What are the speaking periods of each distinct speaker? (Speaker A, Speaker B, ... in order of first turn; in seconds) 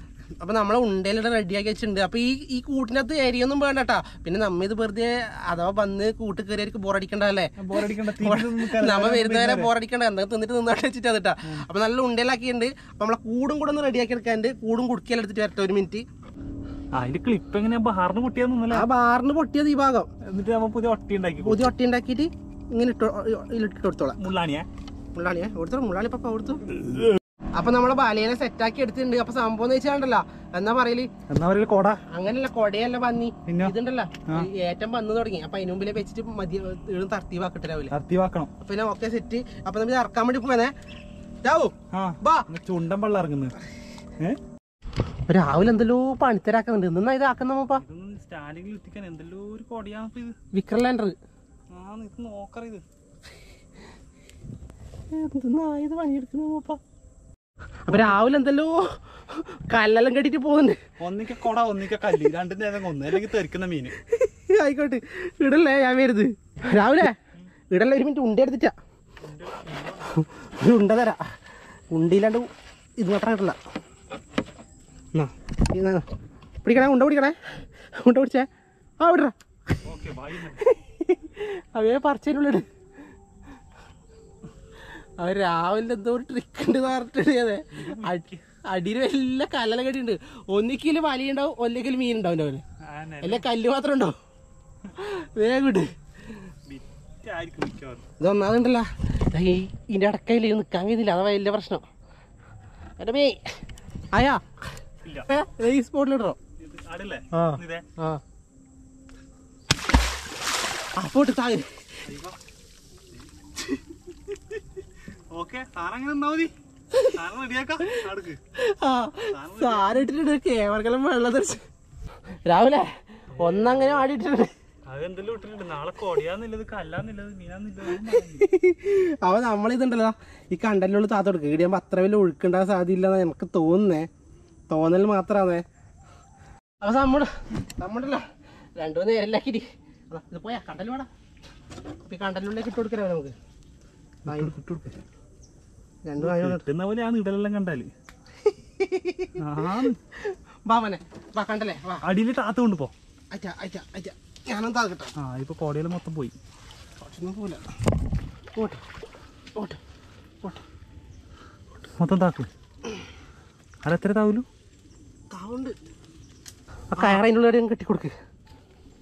Speaker A: 0.4-7.5, 8.1-16.1, 18.7-20.1, 21.4-24.2, 25.1-26.6, 27.6-31.1, 32.1-37.9, 38.6-40.7, 41.4-42.5, 45.3-47.8, 50.5-51.1, 55.1-56.8, 57.9-60.8, 64.0-67.1, 67.7-68.7, 70.1-71.2, 71.9-72.5, 73.0-73.6, 75.1-76.0, 76.6-78.5, 79.0-79.8, 80.5-82.6, 85.2-92.6, 93.2-94.1, 95.0-95.9, 98.2-101.8, 103.0-103.6, 104.1-104.4, 105.3-106.4, 107.3-108.2, 111.0-111.9, 117.8-121.6, 122.4-124.5, 127.9-134.1, 134.7-135.6, 136.8-138.2, 138.8-141.1, 142.0-143.3, 144.3-144.5, 146.0-146.6, 148.4-149.4, 150.2-152.0, 153.3-155.1, 157.0-157.6, 158.6-158.8, 165.3-165.7, 166.9-168.1
Speaker B: 7.6-9.7, 16.9-18.9, 20.2-21.7, 24.2-24.7, 31.3-32.0, 33.5-33.7, 37.9-38.5, 41.9-43.5, 47.8-50.3, 51.7-52.8, 57.9-58.2, 61.0-63.9, 69.2-70.2, 79.8-80.7, 87.7-88.4, 92.8-93.5, 96.7-98.0, 106.6-107.8, 112.0-112.4, 115.3-116.5, 117.1-118.4, 119.3-120.0, 123.3-124.0, 124.9-128.4, 144.3-145.0, 146.2-147.9, 149.4-150.0, 152.0-152.9, 155.2-156.3, 162.0-162.5, 163.8-164.4